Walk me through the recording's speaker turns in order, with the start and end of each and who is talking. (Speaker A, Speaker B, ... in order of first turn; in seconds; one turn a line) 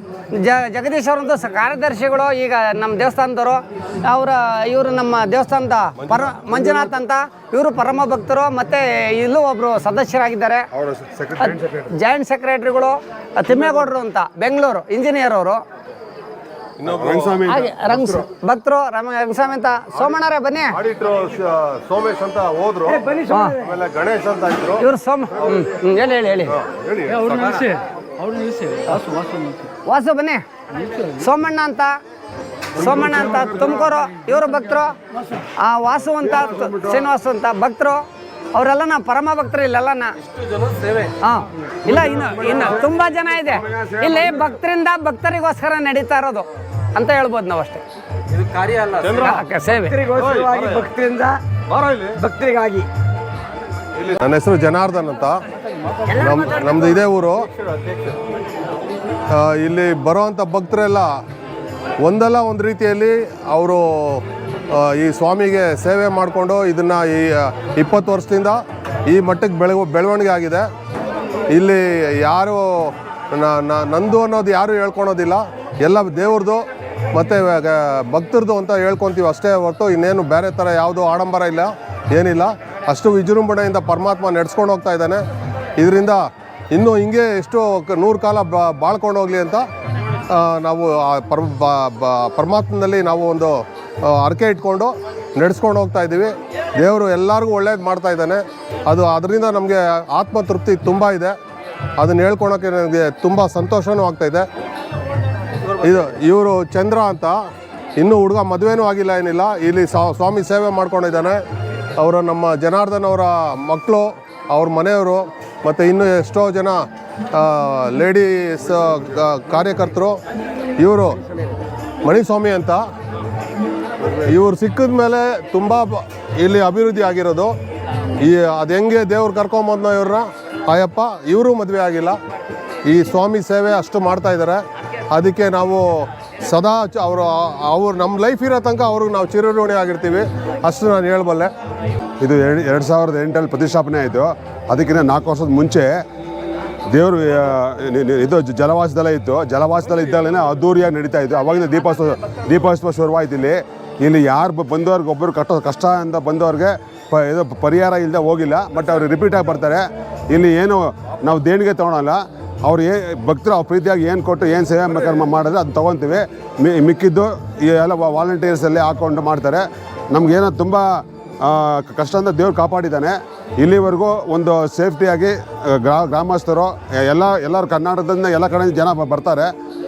Speaker A: 0.4-10.7
Speaker B: 6.0-6.3
Speaker C: 10.7-11.9
Speaker A: 11.4-15.6
Speaker B: 16.8-17.4
Speaker C: 16.9-17.7
Speaker A: 17.5-20.8
Speaker B: 20.8-23.0
Speaker A: 23.3-23.6
Speaker B: 23.6-24.8
Speaker A: 24.8-26.5
Speaker B: 26.6-27.6
Speaker D: 27.1-29.7
Speaker A: 29.8-30.4
Speaker D: 30.7-31.1
Speaker A: 31.1-31.9
Speaker A: 32.8-34.9
Speaker A: 35.6-38.0
Speaker A: 38.5-40.1
Speaker D: 40.2-41.1
Speaker A: 41.2-46.4
Speaker A: 47.0-47.8
Speaker D: 48.3-49.4
Speaker A: 49.1-50.0
Speaker E: 49.9-51.3
Speaker B: 51.7-52.2
Speaker E: 52.2-52.9
Speaker B: 54.1-55.4
Speaker B: 56.1-57.4
Speaker D: 57.7-58.1
Speaker B: 59.3-61.1
Speaker B: 62.0-70.7
Speaker B: 71.5-76.6
Speaker B: 77.1-85.2
Speaker B: 85.8-86.2
Speaker B: 86.7-89.6
Speaker B: 90.3-101.3
Speaker B: 102.0-104.5
Speaker D: 105.6-106.1
Speaker B: 105.8-107.4
Speaker B: 108.0-111.4
Speaker B: 112.0-116.8
Speaker B: 117.3-120.2
Speaker B: 120.8-121.1
Speaker B: 122.0-122.8
Speaker B: 124.2-127.5
Speaker B: 128.2-132.2
Speaker B: 132.9-134.6
Speaker B: 135.1-135.8
Speaker B: 136.4-141.5
Speaker C: 142.2-146.0
Speaker C: 146.9-179.5